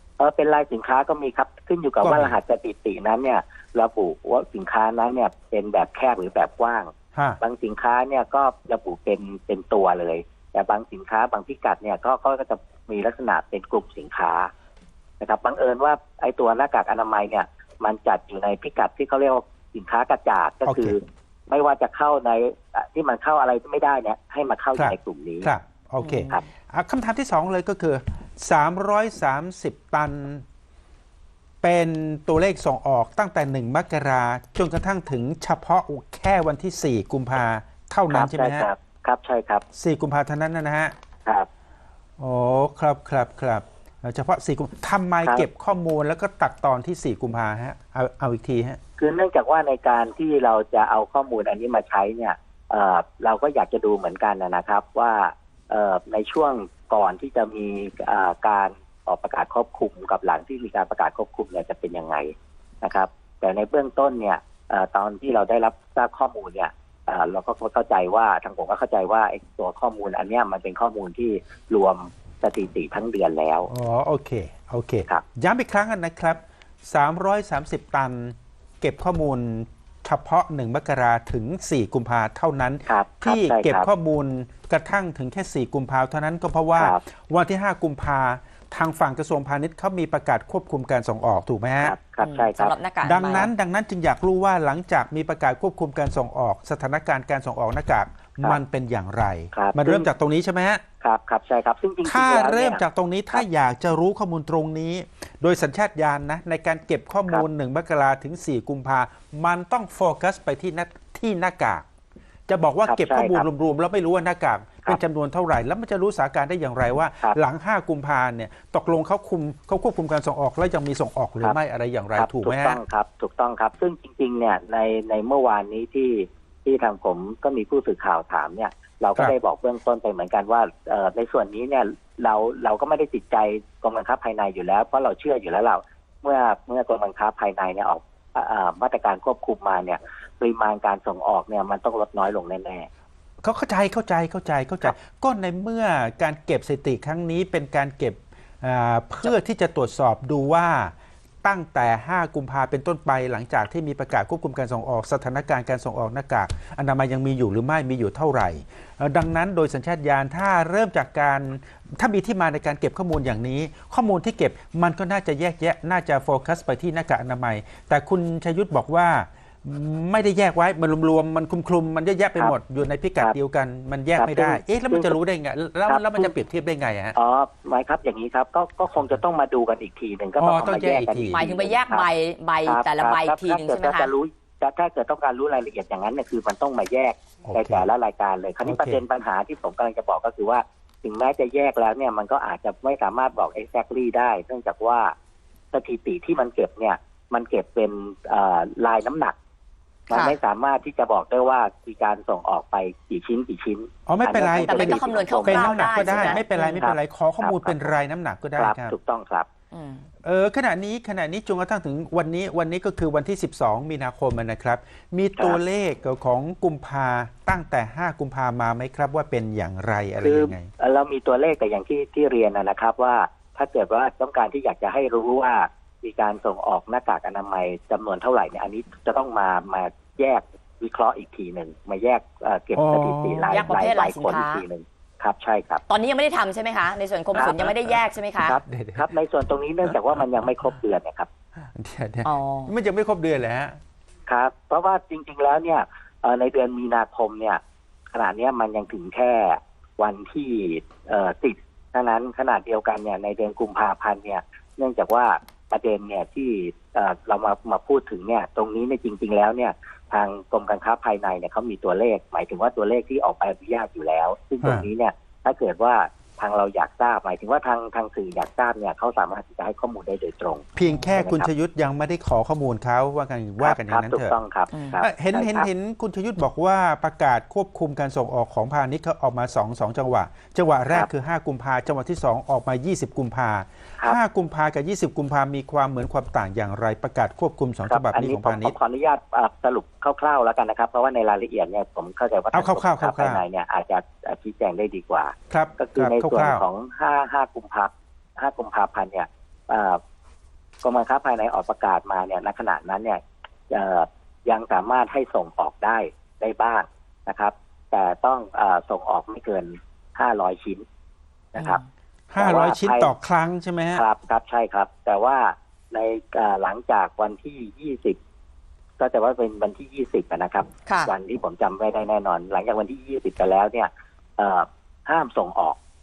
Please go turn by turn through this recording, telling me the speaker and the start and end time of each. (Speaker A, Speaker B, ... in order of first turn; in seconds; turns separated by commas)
Speaker A: 0.2-14.5, Speaker B: 2.0-2.4, Speaker B: 7.1-7.4, Speaker A: 15.2-25.5, Speaker B: 20.6-21.0, Speaker B: 24.8-30.4, Speaker C: 26.0-26.4, Speaker B: 31.6-38.7, Speaker A: 38.1-39.6, Speaker B: 39.8-40.9, Speaker B: 42.2-48.8, Speaker A: 49.0-73.7, Speaker B: 73.7-92.0, Speaker A: 82.9-83.9, Speaker A: 91.8-92.8, Speaker C: 92.2-93.5, Speaker B: 93.0-100.8, Speaker A: 99.5-100.1, Speaker A: 101.0-103.5, Speaker B: 102.0-111.8, Speaker B: 112.5-122.8, Speaker A: 112.9-113.5, Speaker A: 122.2-142.9, Speaker B: 143.4-177.2, Speaker A: 174.2-175.2, Speaker A: 175.9-176.3, Speaker A: 177.1-182.1, Speaker B: 180.4-181.4, Speaker C: 181.3-184.1, Speaker A: 182.7-195.1, Speaker B: 187.4-187.9, Speaker B: 188.6-189.0, Speaker A: 195.7-199.4, Speaker A: 200.1-207.9, Speaker C: 200.1-200.4, Speaker B: 204.1-208.9, Speaker C: 204.6-206.8, Speaker A: 208.6-209.5, Speaker C: 209.7-210.1, Speaker B: 210.2-220.7, Speaker A: 220.2-235.8, Speaker B: 232.8-233.6, Speaker C: 233.5-234.6, Speaker C: 235.9-238.6, Speaker A: 237.3-237.6, Speaker B: 237.4-238.0, Speaker A: 238.4-241.3, Speaker B: 238.7-239.1, Speaker B: 241.7-243.8, Speaker C: 242.2-242.7, Speaker A: 244.3-247.6, Speaker A: 248.1-271.5, Speaker B: 264.6-264.9, Speaker B: 270.8-274.4, Speaker A: 273.6-275.7, Speaker C: 274.7-275.0, Speaker B: 275.0-288.8, Speaker A: 287.9-300.0, Speaker B: 292.5-293.4, Speaker B: 295.5-296.6, Speaker A: 300.8-310.8, Speaker A: 311.5-311.8, Speaker C: 311.6-311.8, Speaker B: 312.3-314.0, Speaker A: 312.4-313.1, Speaker A: 313.9-318.2, Speaker A: 319.0-325.8, Speaker C: 320.9-321.1